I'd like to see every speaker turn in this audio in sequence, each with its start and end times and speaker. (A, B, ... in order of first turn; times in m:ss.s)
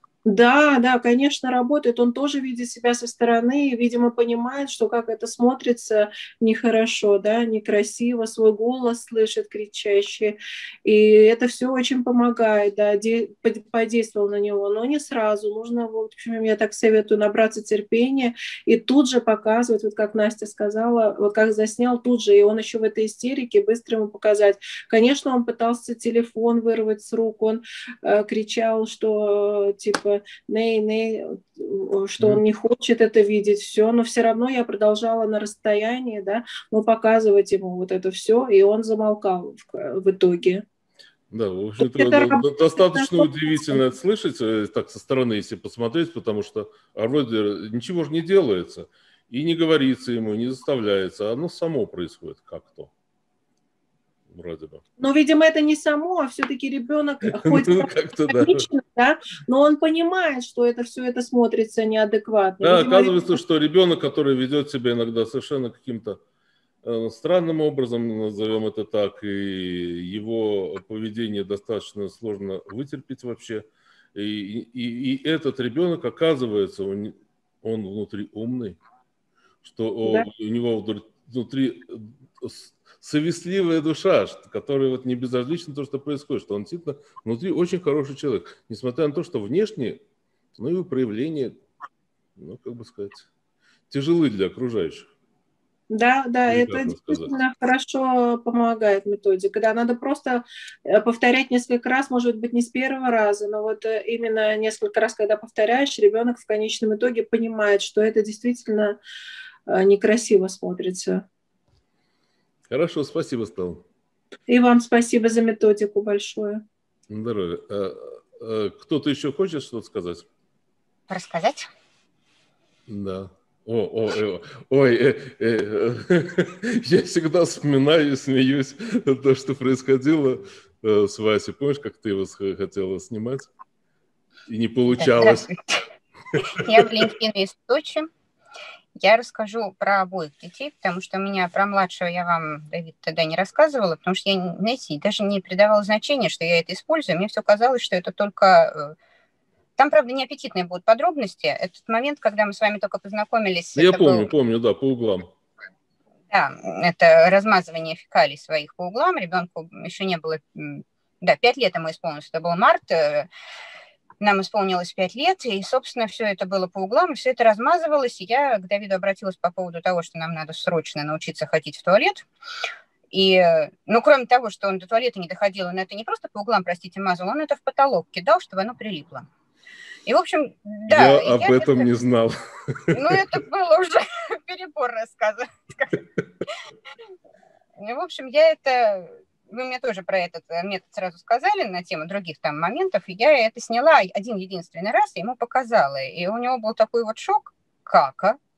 0:00.3-0:40.6 A
0:41.3-0:52.9 B
0:41.8-0:43.8 A
0:54.3-0:54.8 B
0:55.0-1:03.4 A
0:57.2-0:58.7 B
1:02.6-1:06.2 B
1:06.8-1:18.8 B
1:19.6-1:30.0 B
1:30.6-1:31.6 B
1:32.4-1:33.3 B
1:33.9-1:35.1 B
1:35.9-1:49.0 A
1:36.5-1:37.3 B
1:49.7-1:51.2 A
1:52.7-1:53.8 B
1:54.5-1:56.6 A
1:57.1-2:00.3 B
2:01.1-2:01.7 C
2:02.9-2:13.5 B
2:14.5-2:15.5 B
2:15.0-2:15.8 C
2:16.3-2:16.8 B
2:16.5-2:18.1 C
2:19.0-2:29.0 C
2:29.8-2:34.3 C
2:33.8-2:35.3 B
2:36.3-2:43.3 C
2:44.2-2:52.2 C
2:53.1-2:59.3 C
3:00.1-3:01.9 C
3:00.9-3:03.2 B
3:02.9-3:06.0 C
3:07.8-3:18.4 C